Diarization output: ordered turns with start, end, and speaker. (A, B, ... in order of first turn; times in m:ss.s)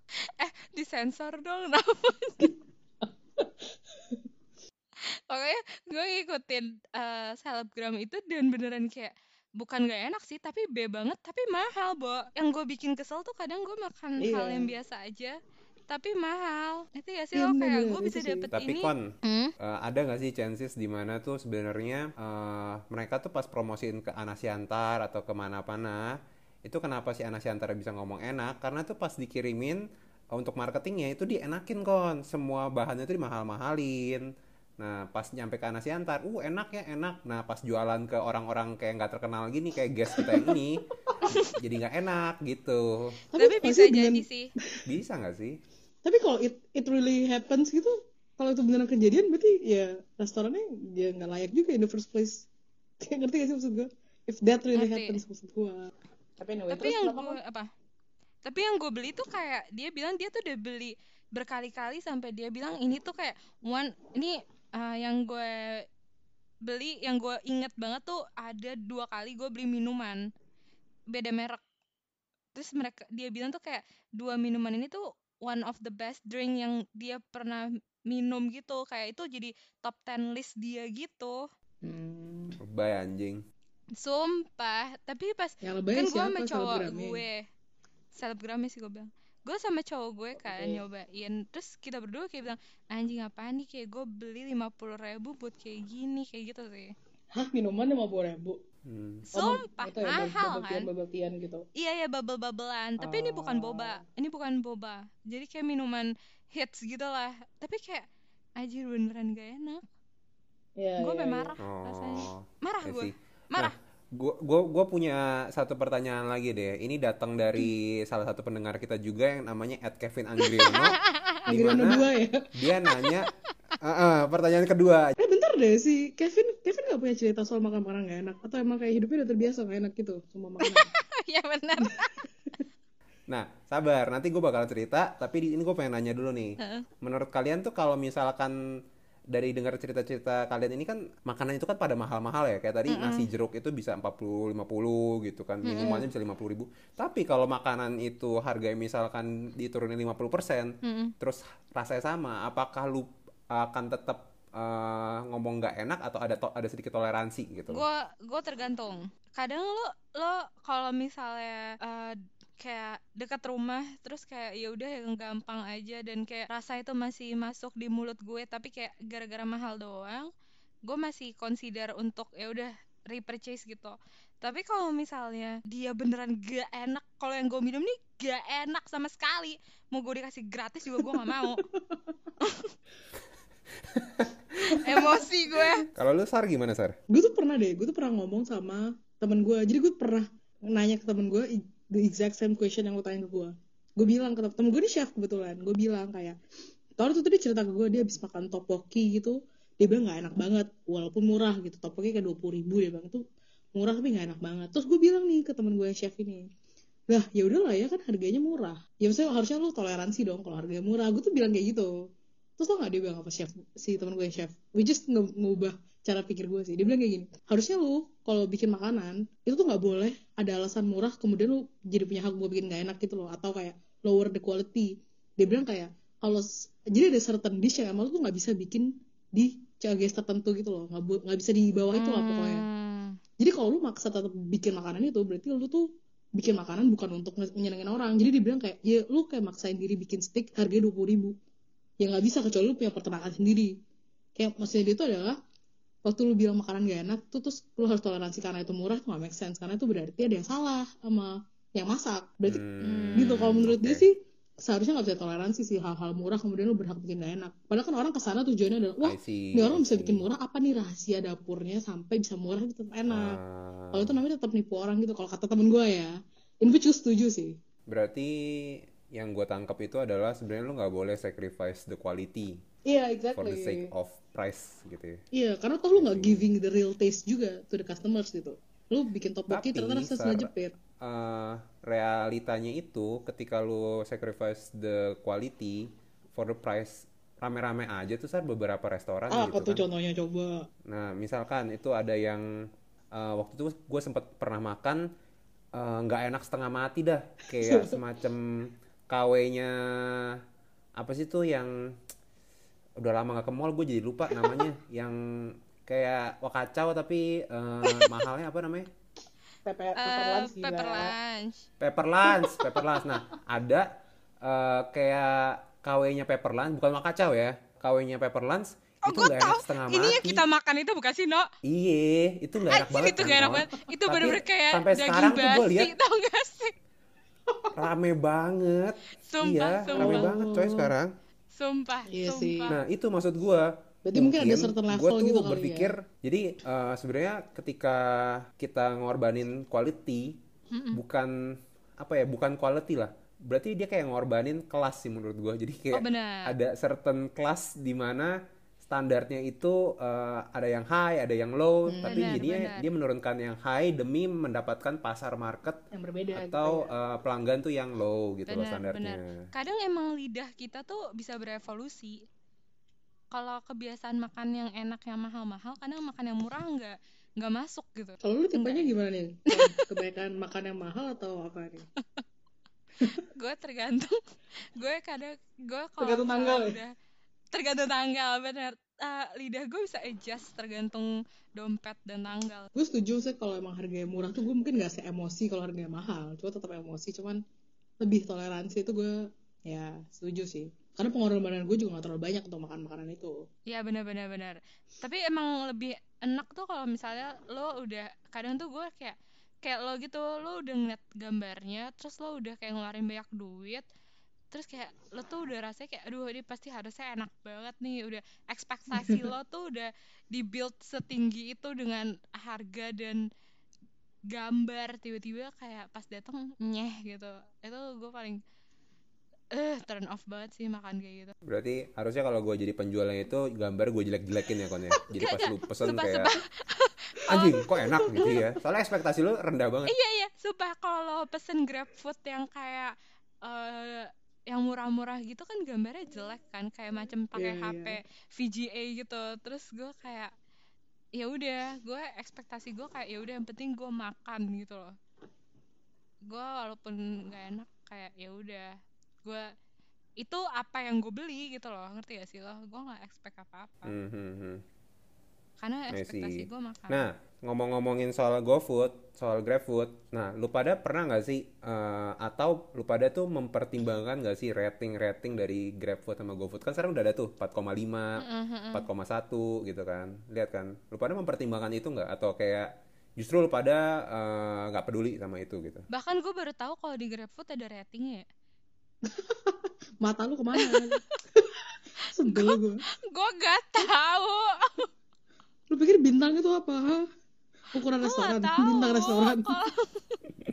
0:00.2-0:02.5 A
0:03.0-0:03.6 B
0:05.0-0:15.4 A
0:14.2-0:14.7 B
0:15.9-0:19.5 A
0:17.3-0:18.5 B
0:18.5-0:29.8 C
0:30.3-0:34.2 C
0:34.8-0:40.9 C
0:40.2-0:40.6 B
0:41.2-0:41.5 A
0:41.4-0:43.2 C
0:43.3-0:44.8 B
0:43.4-0:44.5 A
0:44.8-0:45.6 C
0:46.0-0:52.4 B
0:53.0-0:57.4 B
0:54.7-0:55.2 A
0:56.7-0:57.7 A
0:58.4-1:05.8 A
1:06.6-1:10.2 A
1:11.1-1:11.6 A
1:12.5-1:21.4 A
1:21.8-1:22.6 B
1:22.6-1:23.4 C
1:24.0-1:27.4 A
1:25.6-1:27.2 B
1:28.1-1:36.9 A
1:30.4-1:30.8 B
1:37.3-1:38.6 B
1:38.8-1:39.3 C
1:39.3-1:40.9 A
1:39.3-1:41.6 B
1:41.8-1:48.0 A
1:43.0-1:44.0 B
1:48.6-1:49.8 A
1:50.8-1:51.5 B
1:51.0-1:53.7 A
1:51.6-2:05.1 C
2:00.4-2:01.4 A
2:01.5-2:02.5 B
2:05.2-2:10.9 B
2:10.6-2:12.2 A
2:13.3-2:18.6 C
2:16.6-2:16.8 A
2:19.3-2:37.8 C
2:22.9-2:23.3 A
2:25.6-2:26.0 A
2:30.8-2:31.1 A
2:37.7-2:50.3 A
2:50.8-3:01.6 A
3:01.0-3:02.0 B
3:02.4-3:02.7 A
3:03.9-3:04.3 C
3:04.6-3:05.7 B
3:04.6-3:05.9 A
3:05.9-3:07.0 C
3:07.1-3:16.4 B
3:17.0-3:23.2 B
3:23.7-3:26.5 B
3:27.1-3:52.6 B
3:51.9-3:53.2 A
3:53.4-4:01.4 B
4:02.0-4:03.7 B
4:04.4-4:05.4 B
4:06.0-4:12.6 B
4:12.4-4:14.1 C
4:12.8-4:13.6 A
4:13.1-4:23.4 B
4:19.0-4:20.3 C
4:23.1-4:24.2 C
4:23.9-4:27.5 B
4:27.9-4:32.6 C
4:32.8-4:33.9 B
4:33.4-4:35.2 C
4:35.3-4:40.7 B
4:36.0-4:36.5 C
4:39.5-4:49.8 C
4:49.3-4:50.7 B
4:50.8-4:52.4 C
4:53.1-4:55.0 C
4:55.7-5:00.4 C
4:57.5-4:58.0 B
5:01.0-5:01.9 C
5:03.0-5:08.9 C
5:09.6-5:11.1 B
5:10.0-5:11.6 A
5:11.8-5:13.9 C
5:14.4-5:20.4 C
5:19.0-5:21.5 A
5:21.6-5:25.9 C
5:22.6-5:26.7 A
5:27.5-5:27.7 B
5:27.7-5:31.1 C
5:29.2-5:30.3 A
5:29.9-5:30.9 B
5:31.5-5:32.8 A
5:32.1-5:32.7 B
5:32.7-5:40.4 C
5:34.0-5:35.9 B
5:40.7-5:41.0 A
5:40.9-5:55.8 C
5:45.9-5:46.5 A
5:51.9-5:52.4 B
5:52.0-5:52.9 A
5:55.9-5:56.9 B
5:56.3-5:59.4 C
5:58.5-6:02.2 A
6:03.3-6:09.0 A
6:08.2-6:11.8 B
6:09.5-6:09.8 A
6:13.0-6:14.2 A
6:14.7-6:16.9 A
6:16.0-6:16.8 B
6:17.5-6:22.7 A
6:22.7-6:27.4 B
6:28.0-6:33.4 B
6:33.7-6:43.8 A
6:44.5-6:53.2 A
6:48.9-6:49.3 B
6:54.3-6:58.4 A
6:59.5-7:01.3 A
7:01.4-7:06.3 C
7:05.1-7:07.7 A
7:07.3-7:09.9 C
7:07.7-7:08.4 B
7:09.9-7:20.3 A
7:17.3-7:18.0 B
7:21.2-7:24.9 A
7:26.3-7:29.5 A
7:30.2-7:33.9 A
7:33.8-7:34.6 C
7:35.6-7:37.0 A
7:35.9-7:55.8 C
7:48.2-7:48.9 A
7:55.9-7:58.2 A
7:59.0-8:02.8 B
8:00.6-8:01.0 A
8:02.2-8:04.9 A
8:05.7-8:07.0 B
8:07.7-8:09.5 B
8:08.0-8:10.3 A